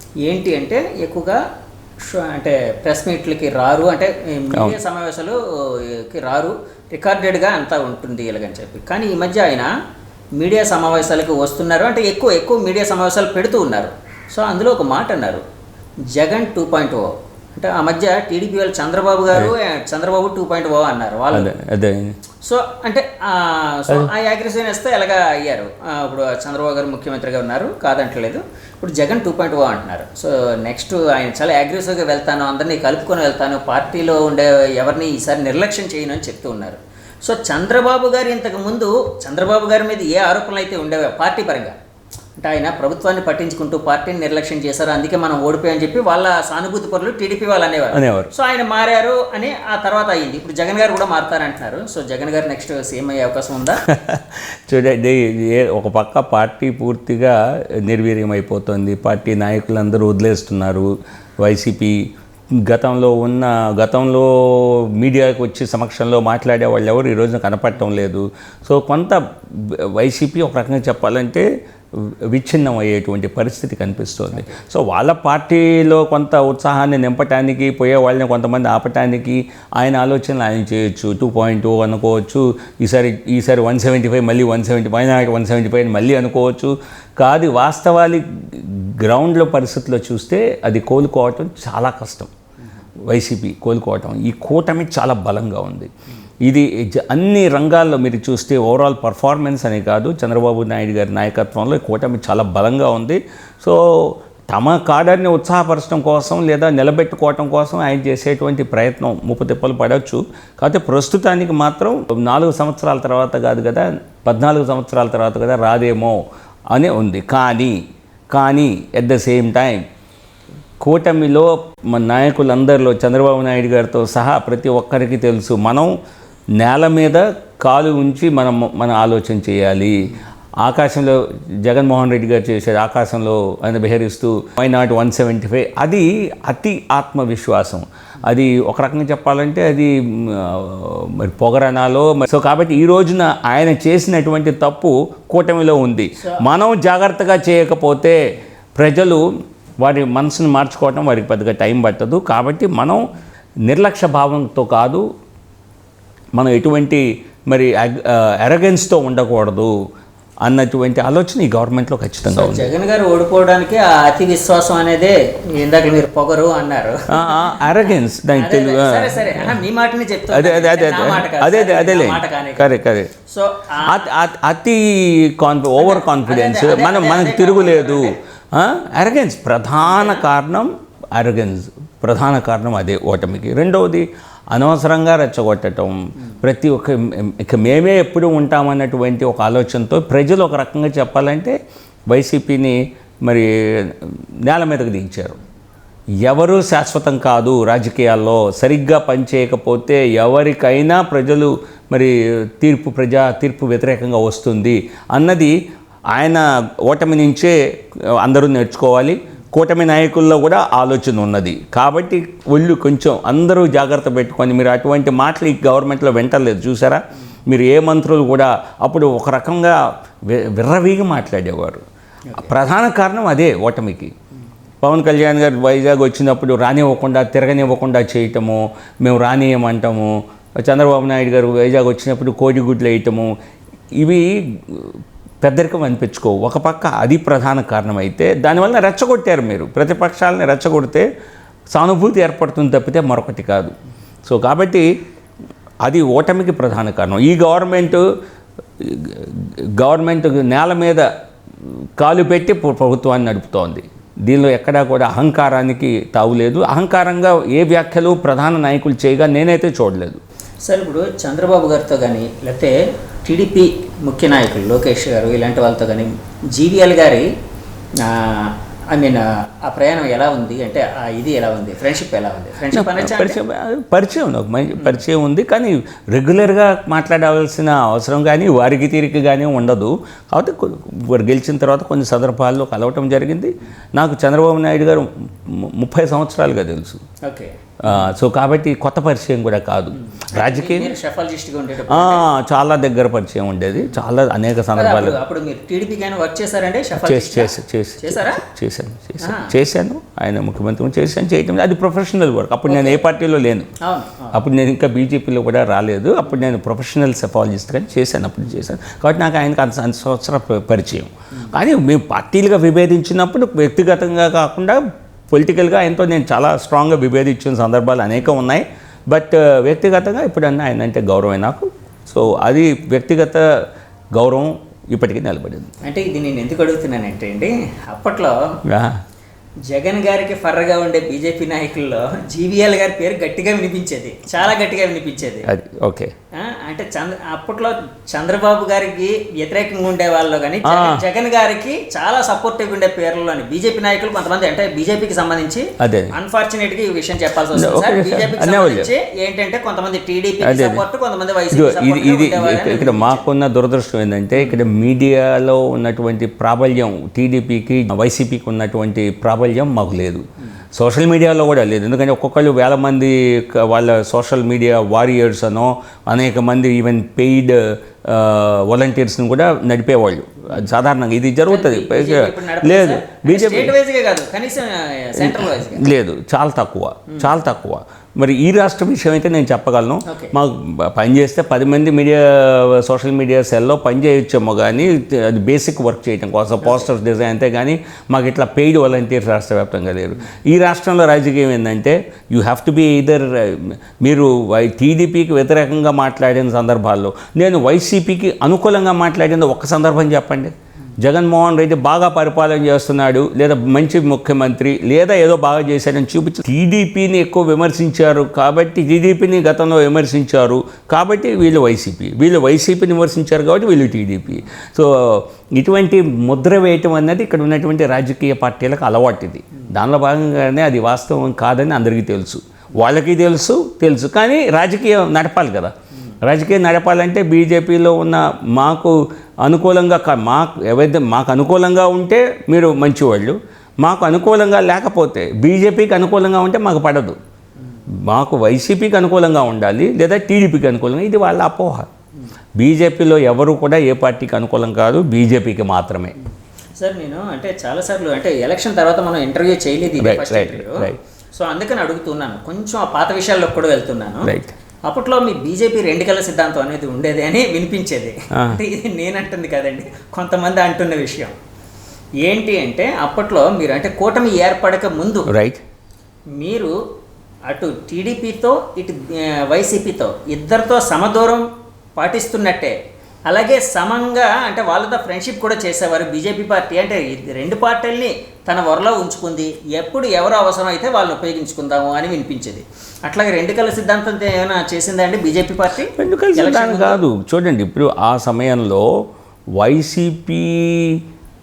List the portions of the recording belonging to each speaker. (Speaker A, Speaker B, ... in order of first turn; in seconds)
Speaker A: 0.3-1.4, 2.1-9.7, 10.4-15.4, 16.1-21.5, 22.4-41.7, 42.4-53.8, 146.2-146.4, 162.3-167.7, 168.3-172.7, 173.3-174.1, 175.8-178.2, 179.8-180.2, 260.7-267.3, 268.0-273.4, 287.2-288.1, 290.1-292.3, 294.8-298.4, 299.2-299.5, 302.7-303.0, 303.8-304.4, 325.8-328.4, 329.7-335.5, 336.4-353.3, 354.4-354.6, 371.5-375.9, 380.1-380.3, 386.6-386.9, 446.8-454.3, 454.9-461.3, 462.2-465.3, 466.4-466.7, 467.5-471.4, 472.0-472.8, 473.3-487.0
Speaker B: 21.3-22.2, 47.9-48.3, 53.9-62.0, 62.7-92.3, 93.1-95.9, 96.5-116.2, 116.7-117.8, 118.3-119.8, 120.8-125.9, 126.6-148.2, 148.8-149.2, 149.8-153.0, 153.7-155.0, 156.4-159.7, 160.4-162.7, 167.1-169.6, 170.3-173.1, 173.8-191.6, 192.1-195.4, 196.2-205.6, 206.1-207.6, 208.2-221.8, 222.4-224.1, 224.8-233.3, 234.0-241.1, 241.7-243.7, 244.3-244.9, 245.8-248.1, 248.8-251.1, 252.0-260.2, 272.7-287.0, 287.8-290.9, 291.9-295.2, 297.0-303.7, 304.3-314.8, 315.3-323.4, 324.1-325.7, 328.7-329.0, 335.5-336.1, 340.7-341.0, 345.8-346.1, 347.5-348.9, 350.4-350.9, 351.5-360.2, 360.8-373.7, 375.2-437.2, 438.1-441.9, 442.6-446.1, 450.0-451.0, 454.2-454.5, 458.4-458.6, 465.3-465.6, 486.0-488.9, 489.6-491.0